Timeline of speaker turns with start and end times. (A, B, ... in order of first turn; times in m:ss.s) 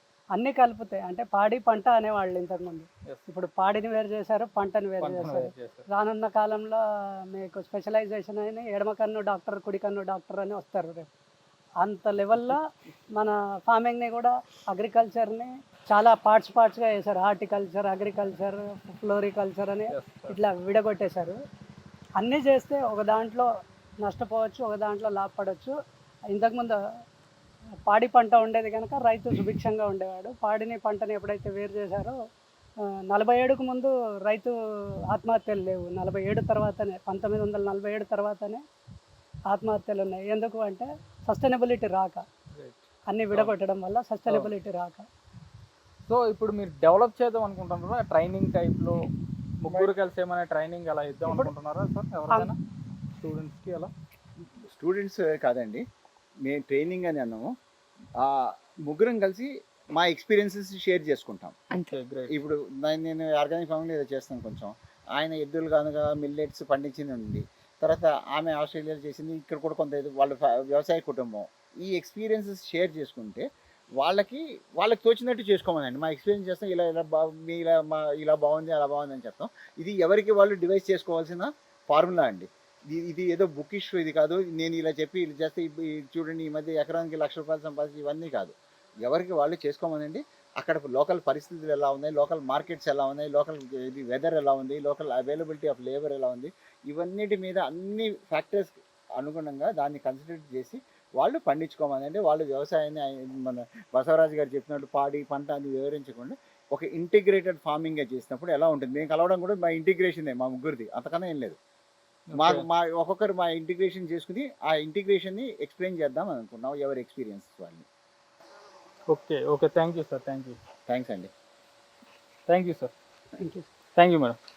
0:00.3-0:06.8 A
0:05.0-0:05.8 B
0:07.3-0:11.1 A
0:11.8-0:12.6 A
0:13.1-0:21.4 A
0:19.9-0:20.4 B
0:22.2-0:23.5 A
0:24.0-0:25.7 A
0:26.3-0:26.8 A
0:27.9-0:32.2 A
0:33.1-0:34.5 A
0:35.1-0:38.6 A
0:39.5-0:42.2 A
0:42.5-0:43.5 B
0:43.1-0:45.0 A
0:46.1-0:49.0 B
0:49.6-0:52.6 B
0:53.2-0:53.9 B
0:54.7-0:55.8 C
0:56.4-0:57.5 C
0:58.2-1:01.6 C
1:01.8-1:02.3 B
1:02.3-1:13.4 C
1:14.0-1:28.5 C
1:29.0-1:51.6 C
1:52.3-1:52.6 B
1:52.3-1:57.8 C
1:59.1-2:00.6 B
2:00.9-2:01.3 C
2:02.5-2:02.9 B
2:03.4-2:03.6 A
2:04.0-2:04.4 B